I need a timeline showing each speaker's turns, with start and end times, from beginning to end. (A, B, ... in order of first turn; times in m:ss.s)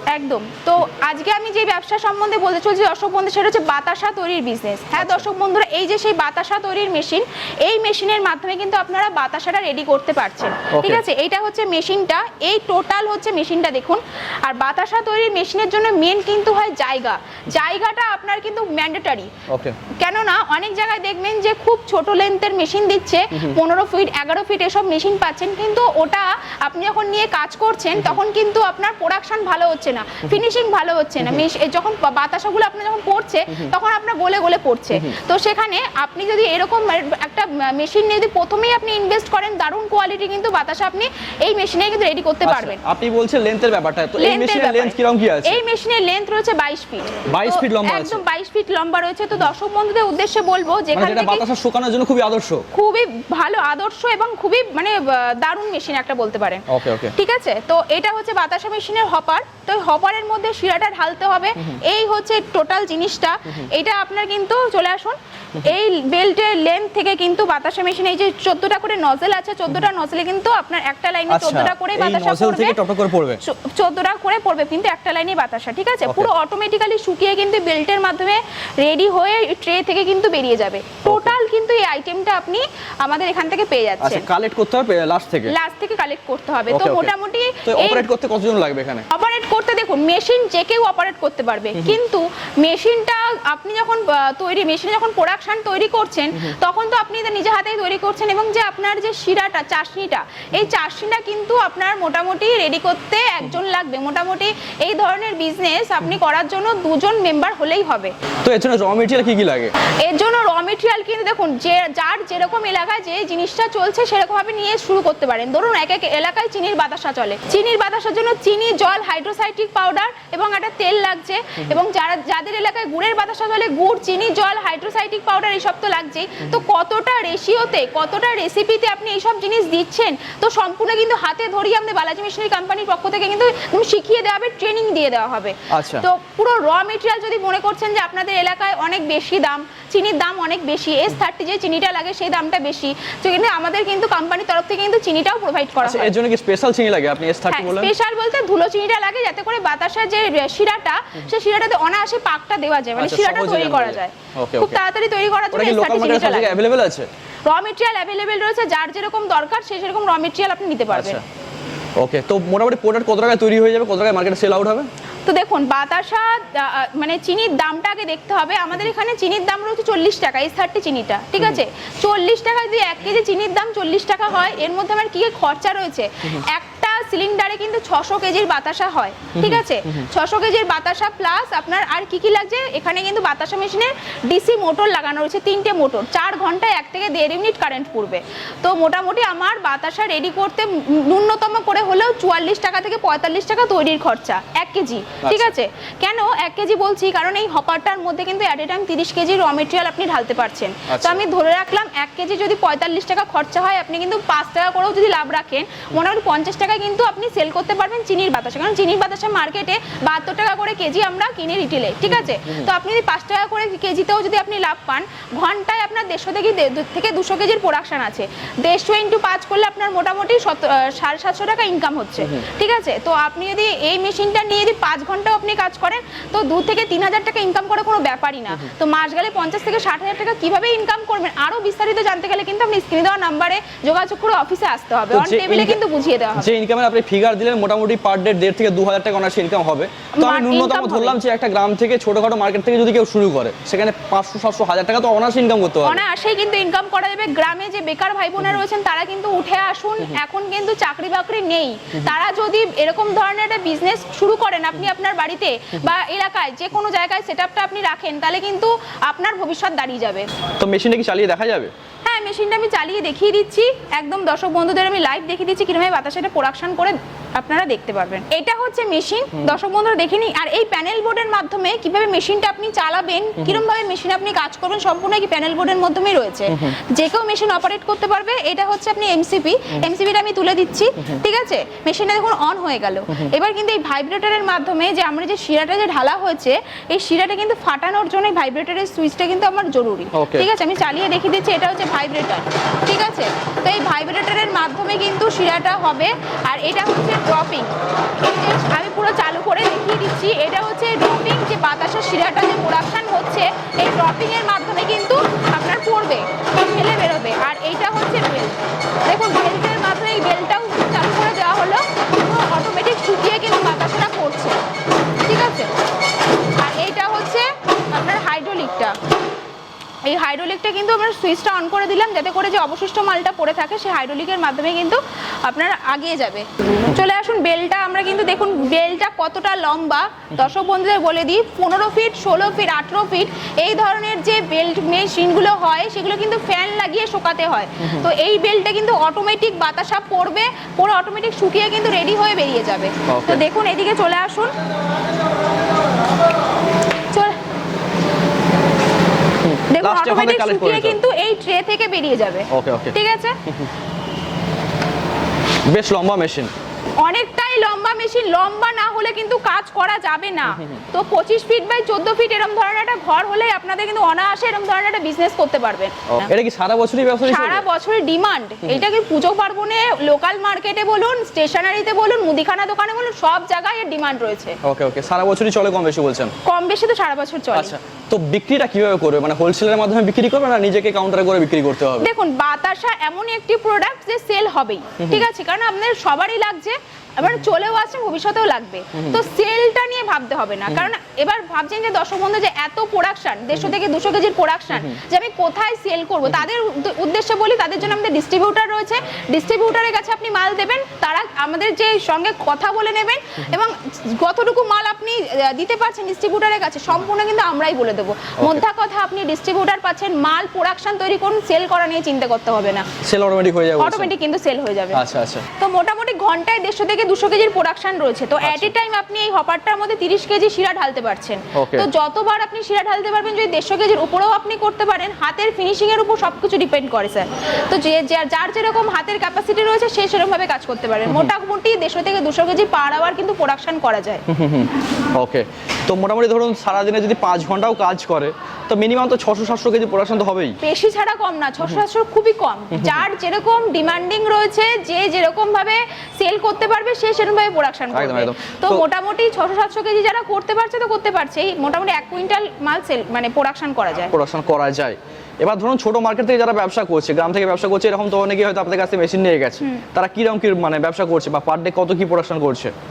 0:00.1-0:19.3 A
0:05.0-0:05.3 B
0:10.7-0:11.0 B
0:19.5-0:19.8 B
0:19.9-0:42.8 A
0:42.4-0:45.6 B
0:44.2-0:51.4 A
0:47.3-0:48.2 B
0:50.9-0:52.6 B
0:52.7-1:12.8 A
0:56.7-0:57.1 B
1:11.3-1:13.4 B
1:13.4-1:24.2 A
1:21.0-1:21.4 B
1:24.0-1:25.5 B
1:25.5-1:28.0 A
1:26.7-1:27.1 B
1:27.6-1:29.1 B
1:29.1-1:48.1 A
1:48.4-1:49.7 B
1:50.0-2:26.1 A
2:15.7-2:16.1 B
2:25.8-2:27.9 B
2:27.5-2:36.6 A
2:33.0-2:34.8 B
2:35.5-2:37.1 B
2:37.5-2:41.2 A
2:40.9-2:41.2 B
2:42.0-2:44.9 B
2:45.2-3:56.5 A
2:59.4-2:59.6 B
3:15.2-3:15.5 B
3:20.9-3:21.2 B
3:32.4-3:32.7 B
3:55.1-3:55.8 B
3:56.4-4:06.0 B
4:00.2-4:01.2 A
4:05.8-4:20.3 A
4:20.6-4:21.7 B
4:22.0-5:14.6 A
4:50.1-4:50.5 B
5:15.2-5:15.7 A
5:16.6-5:19.0 A
5:20.0-5:44.5 A
5:37.8-5:38.1 B
5:43.0-5:43.4 B
5:47.1-5:47.4 A
5:49.4-5:51.0 B
5:49.7-5:53.4 A
5:52.5-5:52.9 B
5:53.4-5:53.7 B
5:55.7-5:56.5 B
5:57.0-6:06.3 A
6:06.1-6:07.6 B
6:07.2-6:14.6 A
6:14.6-6:16.3 B
6:16.4-6:17.7 A
6:17.5-6:22.1 B
6:22.0-6:52.9 A
6:25.0-6:25.3 B
6:29.0-6:29.2 B
6:48.4-6:48.6 B
6:53.0-6:54.1 B
6:53.8-6:55.0 A
6:54.9-6:55.4 B
6:55.6-7:14.2 A
6:58.4-6:58.7 B
7:01.5-7:01.9 B
7:11.1-7:11.3 B
7:14.3-7:20.6 B
7:20.6-7:34.1 A
7:22.7-7:23.0 B
7:27.9-7:28.8 B
7:34.1-7:42.7 B